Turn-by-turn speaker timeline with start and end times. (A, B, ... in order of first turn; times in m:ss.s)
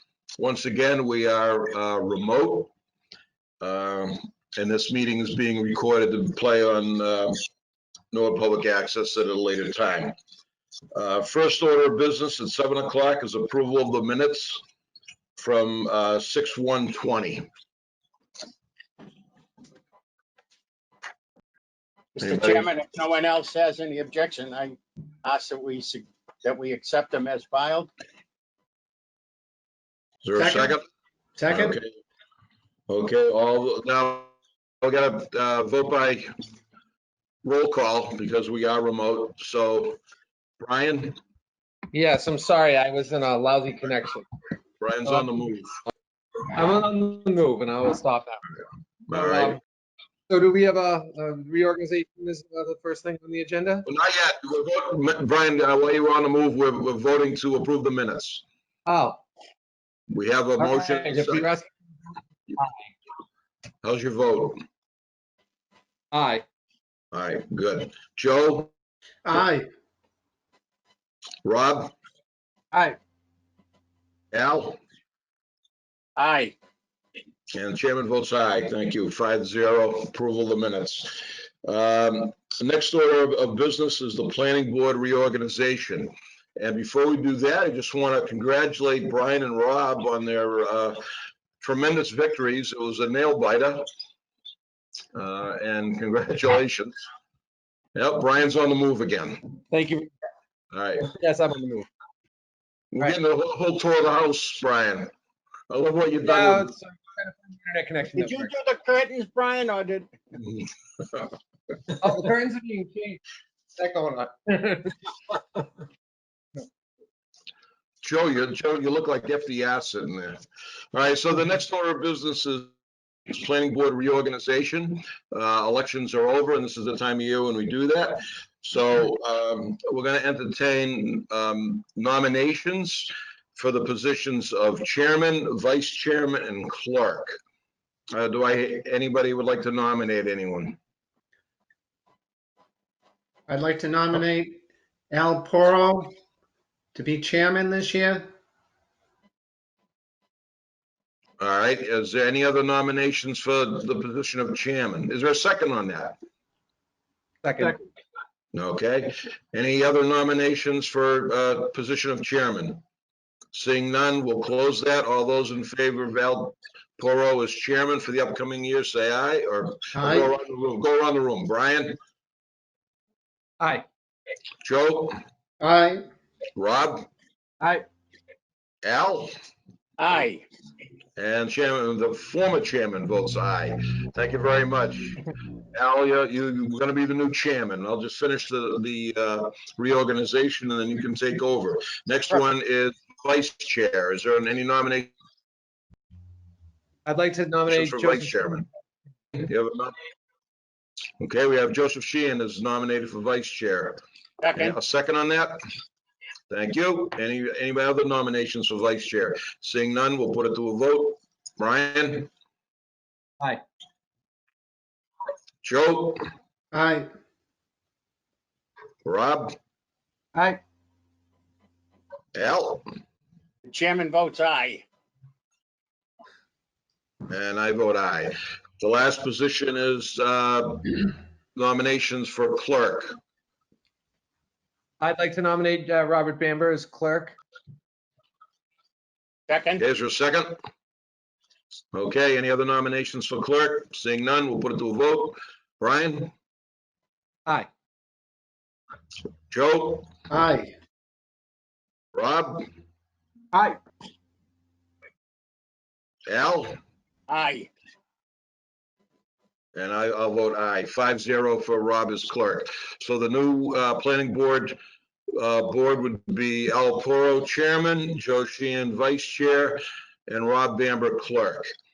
0:00.4-0:02.7 A
0:03.6-0:07.4 A
0:08.1-0:10.1 A
0:10.9-0:14.6 A
0:15.4-0:17.5 A
0:22.2-0:27.9 B
0:22.2-0:22.7 A
0:30.2-0:30.8 A
0:30.3-0:30.8 C
0:31.4-0:31.8 C
0:31.5-0:31.9 A
0:32.9-0:36.3 A
0:37.4-0:40.0 A
0:40.6-0:41.2 A
0:41.9-0:44.2 D
0:44.8-0:45.7 A
0:45.0-0:45.4 D
0:46.5-0:48.4 D
0:49.1-0:49.6 A
0:49.1-0:49.6 D
0:50.3-0:53.8 D
0:53.8-0:58.4 A
0:58.8-0:59.2 D
1:00.1-1:01.5 A
1:00.6-1:01.7 D
1:03.8-1:04.6 A
1:06.1-1:06.4 D
1:07.1-1:08.7 A
1:09.2-1:09.6 C
1:11.4-1:11.9 A
1:14.3-1:14.8 A
1:16.2-1:16.6 B
1:17.5-1:31.0 A
1:31.6-1:33.8 A
1:35.1-1:37.0 A
1:37.9-1:39.5 A
1:39.7-1:40.1 D
1:40.7-1:41.1 A
1:41.0-1:41.9 D
1:42.9-1:45.1 A
1:45.7-1:46.7 A
1:46.2-1:48.5 D
1:48.2-1:50.1 B
1:50.4-1:51.3 A
1:52.0-1:53.2 D
1:53.8-1:55.6 D
1:58.0-2:00.4 A
2:00.9-2:02.7 A
2:03.3-2:17.4 A
2:18.1-2:20.8 A
2:23.5-2:26.1 C
2:26.9-2:28.3 C
2:31.4-2:36.2 A
2:37.4-2:37.8 D
2:38.5-2:42.8 A
2:43.5-2:52.0 A
2:49.9-2:50.3 C
2:53.6-2:53.8 D
2:54.6-2:55.2 A
2:55.6-2:56.0 C
2:56.6-2:57.1 A
2:58.8-2:59.3 A
3:00.0-3:00.4 B
3:01.2-3:15.1 A
3:17.0-3:18.6 D
3:17.7-3:18.6 A
3:19.4-3:19.9 A
3:21.2-3:24.0 A
3:24.4-3:24.8 B
3:24.5-3:25.6 A
3:26.5-3:32.3 A
3:35.6-3:36.2 A
3:36.7-3:37.1 C
3:39.0-3:39.6 A
3:42.3-3:42.8 A
3:43.6-3:44.8 B
3:47.3-3:53.1 A
3:55.0-3:57.4 D
3:59.5-3:59.8 B
3:59.8-4:00.6 A
4:01.9-4:06.3 A
4:09.5-4:10.1 A
4:10.3-4:10.7 C
4:12.1-4:12.7 A
4:16.3-4:16.8 A
4:17.3-4:17.7 B
4:19.7-4:24.8 A
4:25.3-4:31.7 A